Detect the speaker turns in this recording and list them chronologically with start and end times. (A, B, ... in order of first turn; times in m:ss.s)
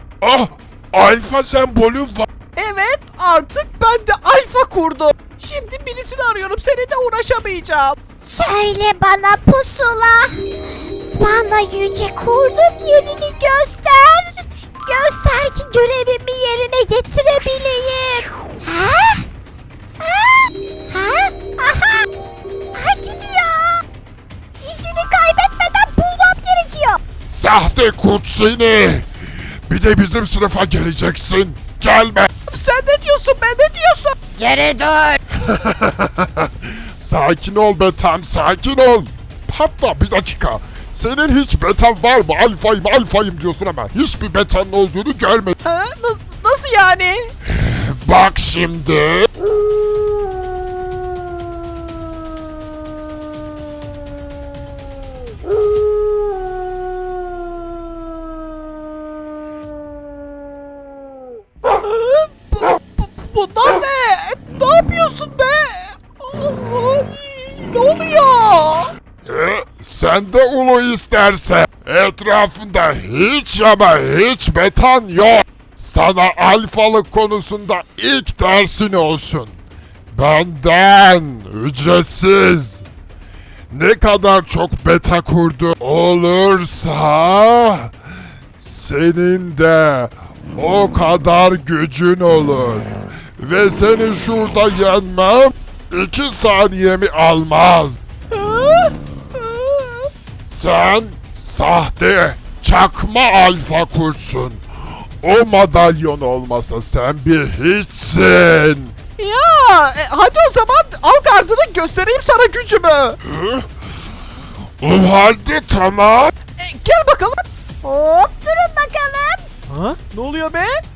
0:00.2-0:02.3 A
0:02.6-0:08.0 B
0:08.3-0:10.4 C
0:11.1-0:19.3 C
0:20.0-0:22.1 C
0:22.7-0:23.8 C
0:24.6-0:27.0 C
0:27.3-0:29.1 A
0:29.7-0:32.3 A
0:32.5-0:34.1 B
0:34.4-0:35.2 C
0:35.3-0:45.6 A
0:45.6-0:47.3 B
0:47.4-0:49.3 A
1:01.8-1:08.9 B
1:09.2-1:19.6 A
1:20.1-1:22.8 A
1:23.7-1:27.9 A
1:28.6-1:38.0 A
1:38.3-1:40.0 B
1:40.4-1:44.6 A
1:45.2-1:48.9 A
1:49.2-1:53.2 B
1:53.2-1:53.7 A
1:54.8-1:56.3 A
1:56.6-1:57.4 B
1:57.8-1:59.5 C
1:59.7-2:00.8 B